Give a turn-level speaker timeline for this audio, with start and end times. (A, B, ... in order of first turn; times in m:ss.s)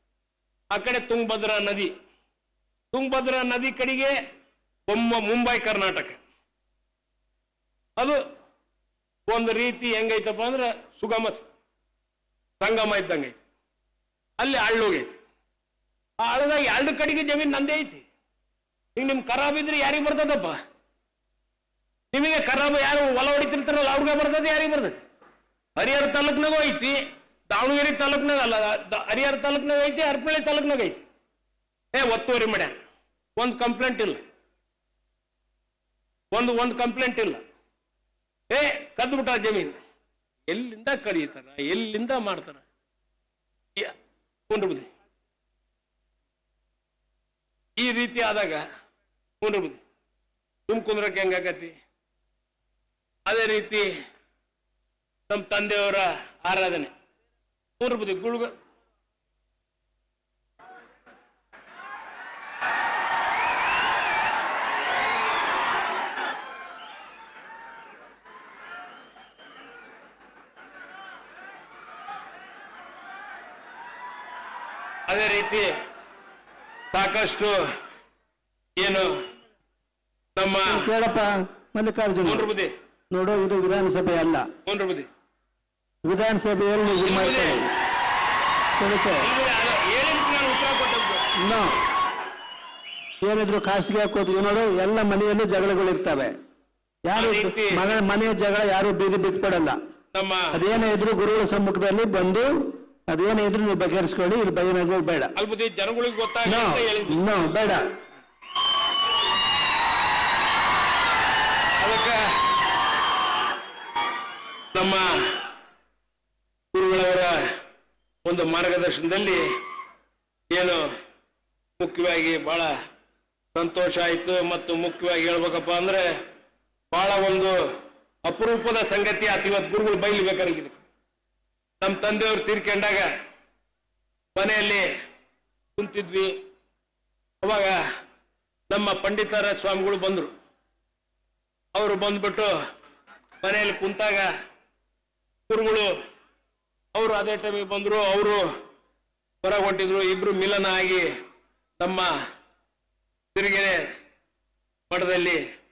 0:00.7-0:01.9 A
0:02.9-0:04.2 A
0:04.9-0:06.2 A
0:08.0-0:08.2 A
0:09.3-0:11.5 A
0:12.6-0:13.4 A
0:14.4-0:15.2 A
0:16.2-0:18.1 A
0:19.0-0:20.6 A
0:22.1-0:25.0 A
0:25.8-0:27.0 A
0:27.5-0:31.0 A
0:31.9-0:32.8 A
0:33.4-0:34.2 A
0:36.3-0:37.4 A
0:38.5-0:39.8 A
0:40.5-0:42.6 A
0:44.5-0:44.9 A
0:47.8-0:48.6 A
0:49.4-0:49.8 A
0:50.7-0:51.8 A
0:53.3-0:53.9 A
0:55.3-0:56.9 A
0:57.8-0:58.5 A
1:15.1-1:15.7 A
1:16.9-1:17.6 A
1:18.8-1:19.1 A
1:20.4-1:20.9 A
1:20.7-1:22.5 B
1:22.2-1:22.7 A
1:23.1-1:24.5 B
1:24.6-1:25.1 A
1:26.0-1:27.7 B
1:27.0-1:27.6 A
1:28.8-1:29.3 B
1:29.2-1:31.3 A
1:31.4-1:31.8 B
1:33.2-1:36.4 B
1:37.0-1:39.8 B
1:37.2-1:37.8 A
1:40.1-1:40.6 A
1:40.5-1:45.3 B
1:45.4-1:47.2 A
1:46.4-1:47.9 B
1:51.8-1:52.3 A
1:54.7-1:55.4 A
1:56.7-1:57.4 A
1:58.2-1:59.5 A
2:00.5-2:00.9 A
2:01.8-2:02.7 A
2:03.5-2:06.1 A
2:06.9-2:07.6 A
2:08.2-2:10.8 A
2:11.8-2:13.1 A
2:14.4-2:14.9 A
2:15.8-2:16.4 A
2:17.4-2:17.8 A
2:18.7-2:20.3 A
2:21.7-2:22.5 A
2:23.4-2:24.3 A
2:25.5-2:25.9 A
2:26.9-2:28.5 A
2:29.4-2:31.1 A
2:31.8-2:32.1 A
2:33.3-2:33.8 A
2:34.9-2:35.4 A